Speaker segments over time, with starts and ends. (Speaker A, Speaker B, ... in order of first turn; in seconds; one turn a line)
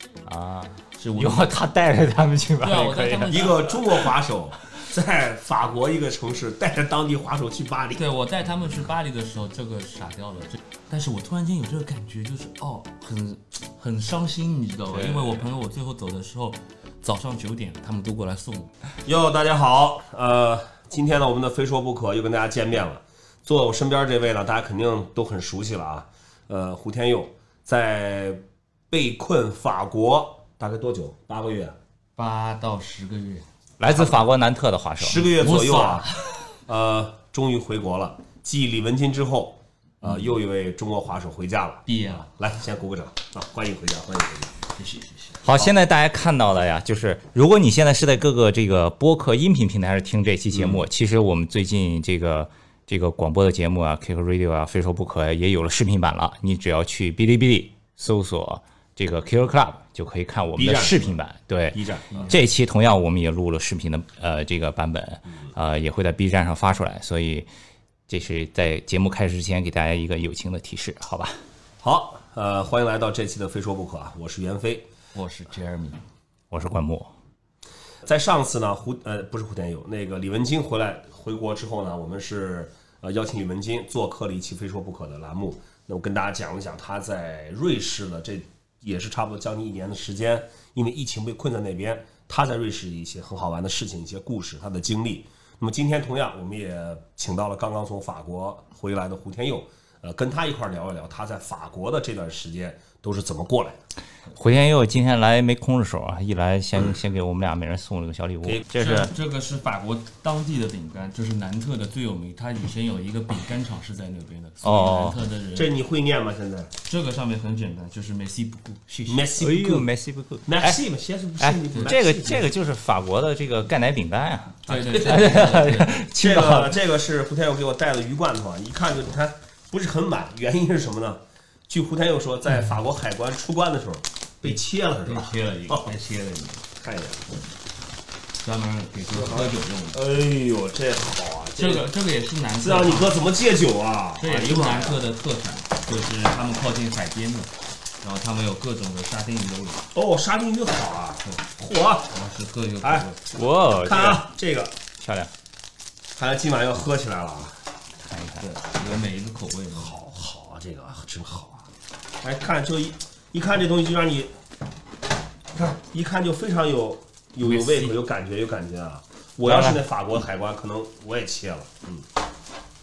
Speaker A: 0.2-3.9
Speaker B: 1.0-1.5
Speaker B: 2.6-3.7
Speaker C: 3.3-8.0
Speaker B: 8.0-18.7
Speaker A: 14.9-15.4
Speaker C: 19.1-31.8
Speaker B: 32.1-33.5
Speaker A: 33.8-35.3
Speaker C: 33.9-34.2
Speaker C: 35.0-36.1
Speaker B: 35.4-36.4
Speaker C: 36.7-44.5
Speaker B: 41.9-42.3
Speaker B: 44.8-45.7
Speaker A: 45.4-67.5
Speaker C: 50.5-50.8
Speaker C: 60.6-61.2
Speaker C: 61.7-62.4
Speaker A: 68.1-71.4
Speaker C: 71.8-74.9
Speaker B: 75.1-76.0
Speaker A: 76.5-77.1
Speaker C: 78.0-103.8
Speaker A: 104.3-109.1
Speaker B: 108.7-115.7
Speaker A: 114.6-115.2
Speaker C: 115.5-116.7
Speaker B: 116.8-119.2
Speaker C: 119.1-119.9
Speaker A: 119.4-120.8
Speaker C: 120.5-122.5
Speaker A: 121.4-126.8
Speaker B: 124.7-126.0
Speaker C: 126.2-135.9
Speaker B: 134.5-136.7
Speaker C: 136.8-137.2
Speaker B: 138.4-140.0
Speaker C: 139.1-141.9
Speaker B: 141.6-143.2
Speaker C: 142.6-145.0
Speaker B: 144.2-149.9
Speaker C: 149.9-152.1
Speaker B: 152.1-153.2
Speaker C: 152.8-153.1
Speaker A: 153.3-154.2
Speaker C: 153.8-154.8
Speaker A: 155.0-155.3
Speaker C: 156.1-157.6
Speaker A: 158.0-158.4
Speaker B: 158.4-159.9
Speaker C: 159.7-161.7
Speaker C: 162.2-164.3
Speaker C: 165.5-172.1
Speaker B: 167.4-167.9
Speaker A: 169.4-169.8